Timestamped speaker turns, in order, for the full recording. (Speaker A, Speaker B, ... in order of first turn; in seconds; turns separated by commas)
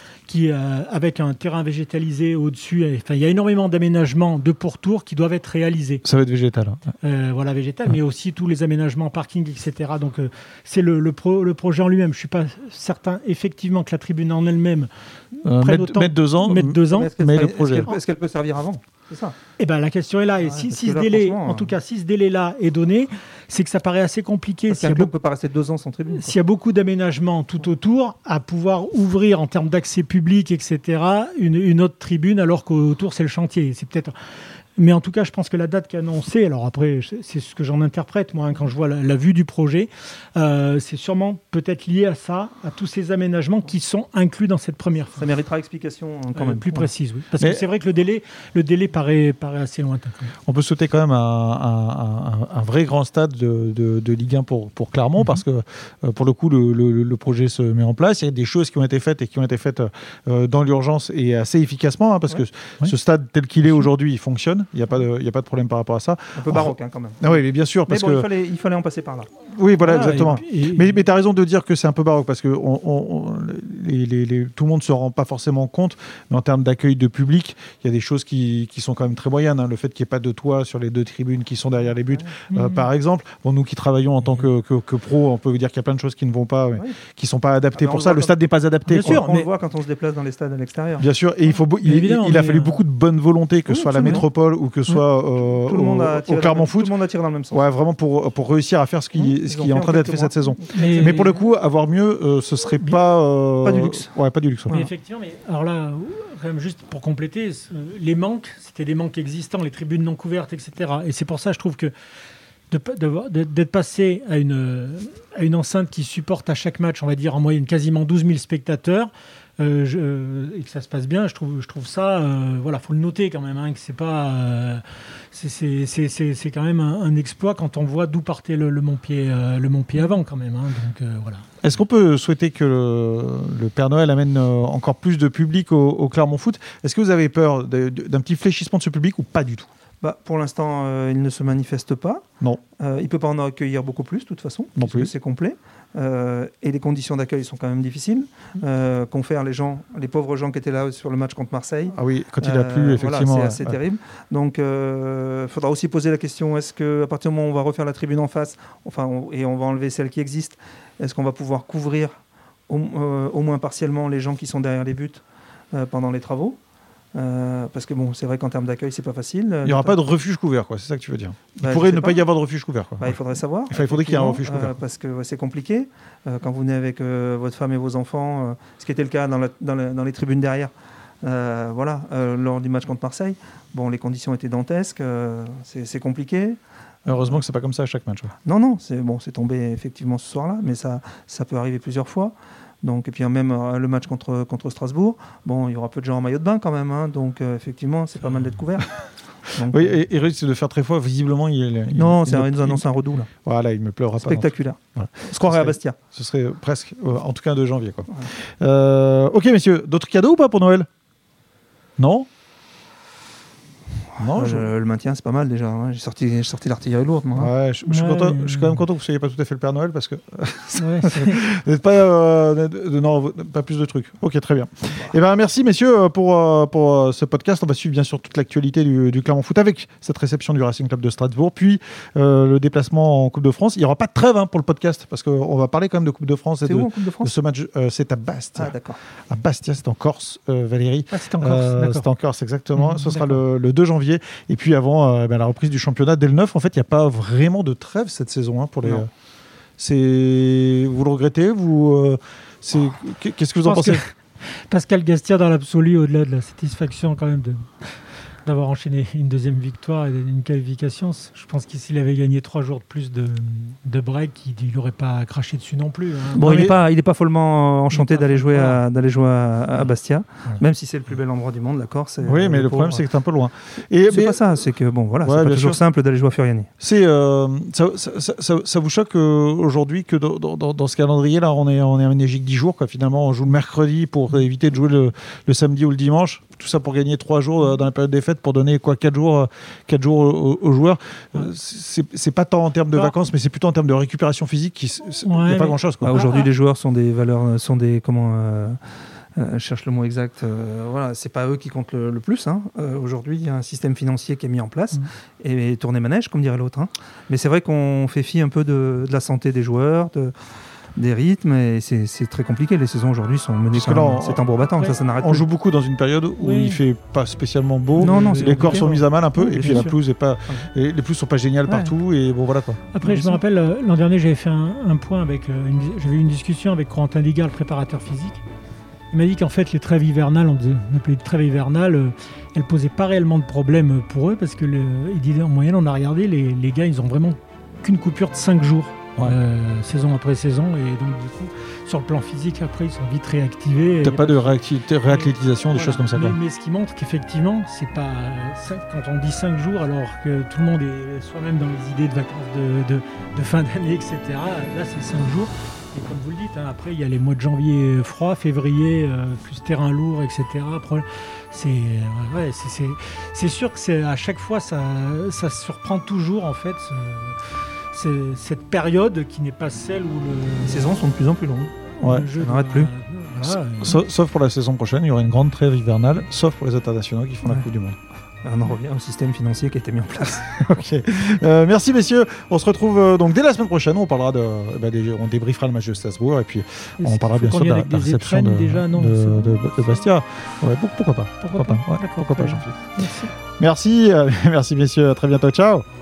Speaker A: 0.3-6.0, Speaker B: 6.0-6.9, Speaker A: 7.0-17.1, Speaker B: 15.4-17.9, Speaker C: 16.9-19.4, Speaker A: 19.6-25.1, Speaker C: 20.4-21.8, Speaker C: 24.7-26.4, Speaker A: 26.1-34.1, Speaker A: 34.8-45.2, Speaker C: 45.2-46.9, Speaker A: 46.4-50.3, Speaker B: 50.5-68.3, Speaker C: 66.4-69.3, Speaker B: 69.5-89.2, Speaker A: 69.8-71.0, Speaker A: 82.5-82.9, Speaker C: 87.8-88.4, Speaker A: 88.9-89.5, Speaker C: 89.0-91.1, Speaker B: 91.0-96.9, Speaker A: 91.8-92.8, Speaker C: 93.7-94.3, Speaker C: 95.4-97.6, Speaker B: 97.5-104.8, Speaker C: 99.2-101.3, Speaker A: 100.7-101.3, Speaker C: 103.6-104.1, Speaker A: 104.7-111.9, Speaker A: 112.7-131.5, Speaker B: 131.6-139.7, Speaker C: 140.0-142.3, Speaker C: 142.8-162.2, Speaker B: 144.8-145.1, Speaker B: 151.9-153.8, Speaker C: 162.7-166.6, Speaker C: 167.1-170.0, Speaker B: 169.6-174.8, Speaker C: 171.6-172.2, Speaker C: 173.0-186.6, Speaker B: 187.1-188.3, Speaker C: 187.1-187.4, Speaker C: 188.4-200.0, Speaker B: 199.7-202.8, Speaker C: 201.9-203.3, Speaker B: 203.4-210.9, Speaker C: 204.2-206.0, Speaker B: 212.0-212.3, Speaker C: 214.1-217.5, Speaker B: 214.2-214.7, Speaker B: 217.4-238.8, Speaker A: 217.9-218.8, Speaker A: 220.8-221.4, Speaker C: 236.7-237.3, Speaker C: 238.6-239.0, Speaker B: 239.3-249.1, Speaker A: 241.1-242.1, Speaker A: 242.8-243.4, Speaker B: 249.8-254.0, Speaker A: 253.6-266.7, Speaker C: 266.3-273.1, Speaker B: 266.4-266.8, Speaker A: 267.9-268.8, Speaker B: 272.2-274.4, Speaker C: 274.1-276.7, Speaker B: 275.2-275.8, Speaker B: 276.8-296.2, Speaker A: 295.2-296.5, Speaker C: 296.0-298.8, Speaker C: 299.4-310.4, Speaker C: 311.0-315.4, Speaker B: 313.7-314.4, Speaker B: 315.2-322.9, Speaker A: 316.4-316.8, Speaker A: 318.0-319.9, Speaker C: 318.0-320.0, Speaker A: 322.9-328.4, Speaker C: 323.1-323.4, Speaker A: 329.1-371.0, Speaker B: 344.0-346.4, Speaker C: 370.6-372.9, Speaker B: 372.0-372.3, Speaker A: 372.0-374.0, Speaker B: 373.5-378.0, Speaker C: 378.4-380.6, Speaker B: 380.3-392.8, Speaker A: 387.0-390.0, Speaker A: 391.4-393.3, Speaker B: 393.6-395.9